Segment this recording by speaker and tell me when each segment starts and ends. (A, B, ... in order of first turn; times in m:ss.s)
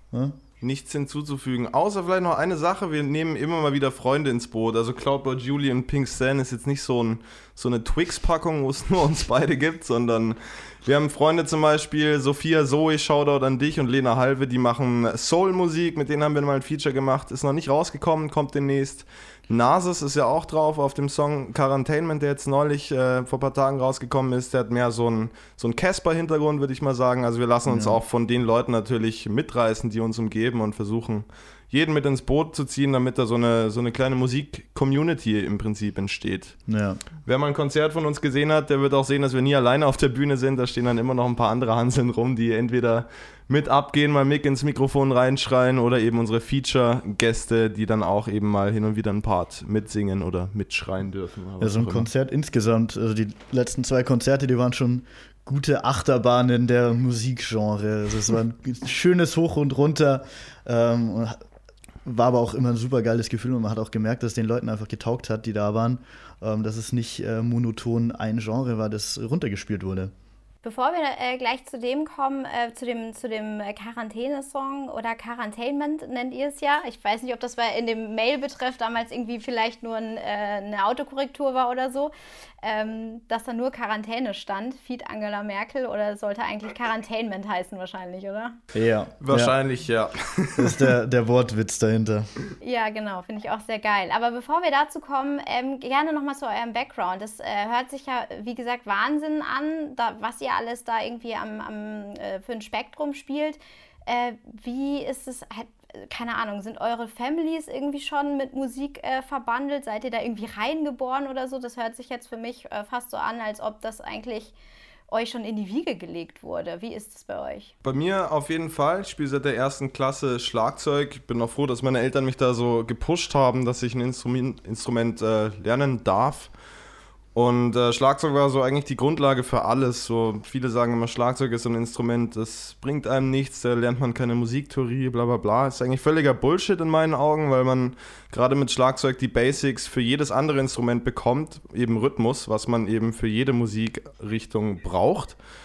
0:00.1-0:00.4 A
0:00.6-0:36.6 B
0:27.7-0:28.0 A
0:36.7-0:37.0 A
0:37.2-0:52.1 B
0:51.6-1:01.4 A
1:02.0-1:10.1 A
1:10.6-1:28.6 C
1:28.7-1:29.5 A
1:29.2-1:30.9 B
1:30.6-1:32.3 A
1:32.6-1:54.6 C
1:55.1-1:57.7 C
1:57.8-2:06.5 B
2:07.3-2:25.4 B